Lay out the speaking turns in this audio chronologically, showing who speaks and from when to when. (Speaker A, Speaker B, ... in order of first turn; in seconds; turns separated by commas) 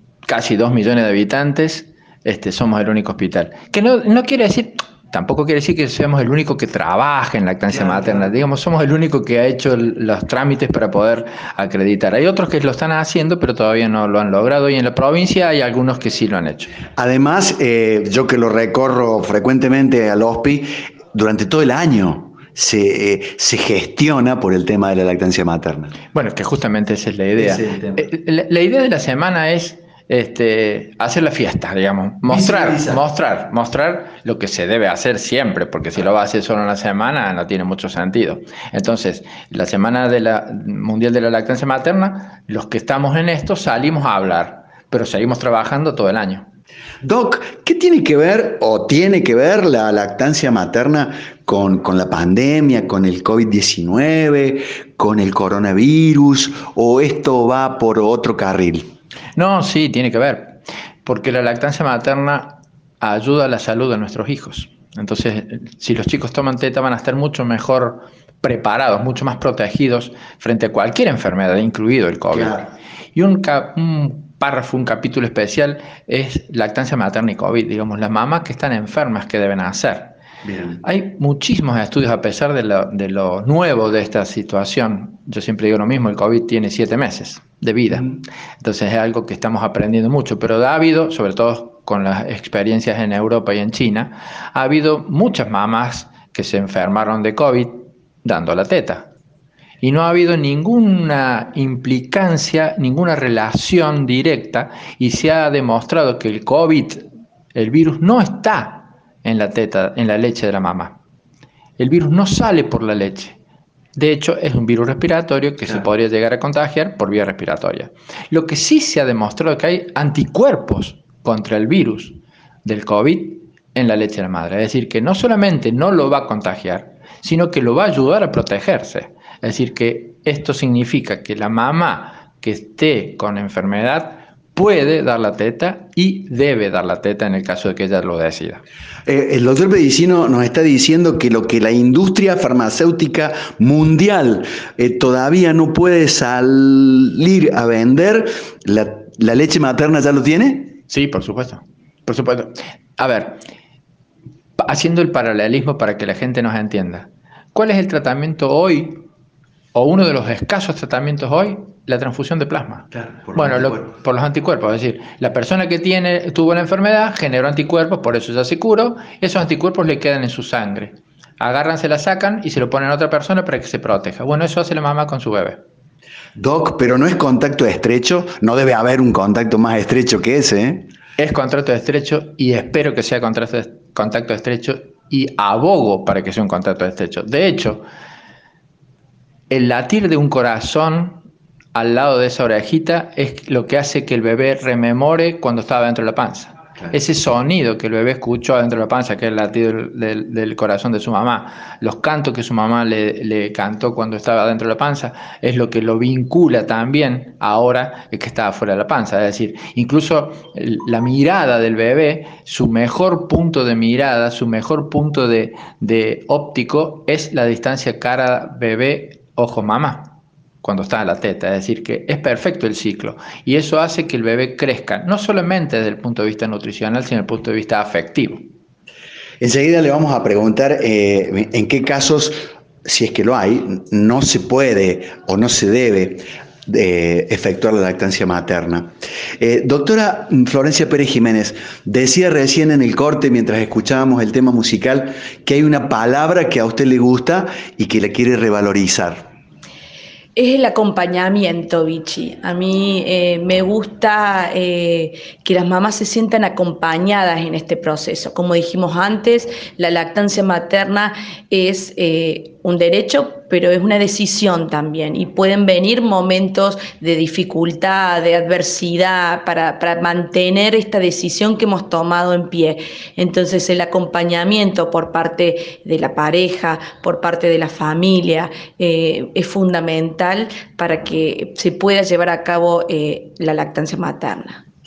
Speaker A: 0.3-16.8, Speaker B: 7.7-8.3, Speaker B: 17.0-26.0, Speaker A: 26.1-46.5, Speaker B: 27.4-28.1, Speaker B: 32.2-33.0, Speaker B: 47.0-58.9, Speaker A: 59.4-80.2, Speaker B: 72.3-72.7, Speaker B: 80.4-80.8, Speaker A: 80.8-99.1, Speaker A: 99.8-111.0, Speaker A: 111.8-113.4, Speaker A: 114.0-138.6, Speaker B: 139.1-150.8, Speaker A: 150.9-153.4, Speaker A: 154.6-159.0, Speaker A: 159.7-175.6, Speaker B: 162.9-163.9, Speaker B: 176.4-180.9, Speaker A: 181.2-187.8, Speaker A: 189.5-191.2, Speaker A: 191.8-228.5, Speaker B: 229.4-249.3, Speaker C: 250.4-284.6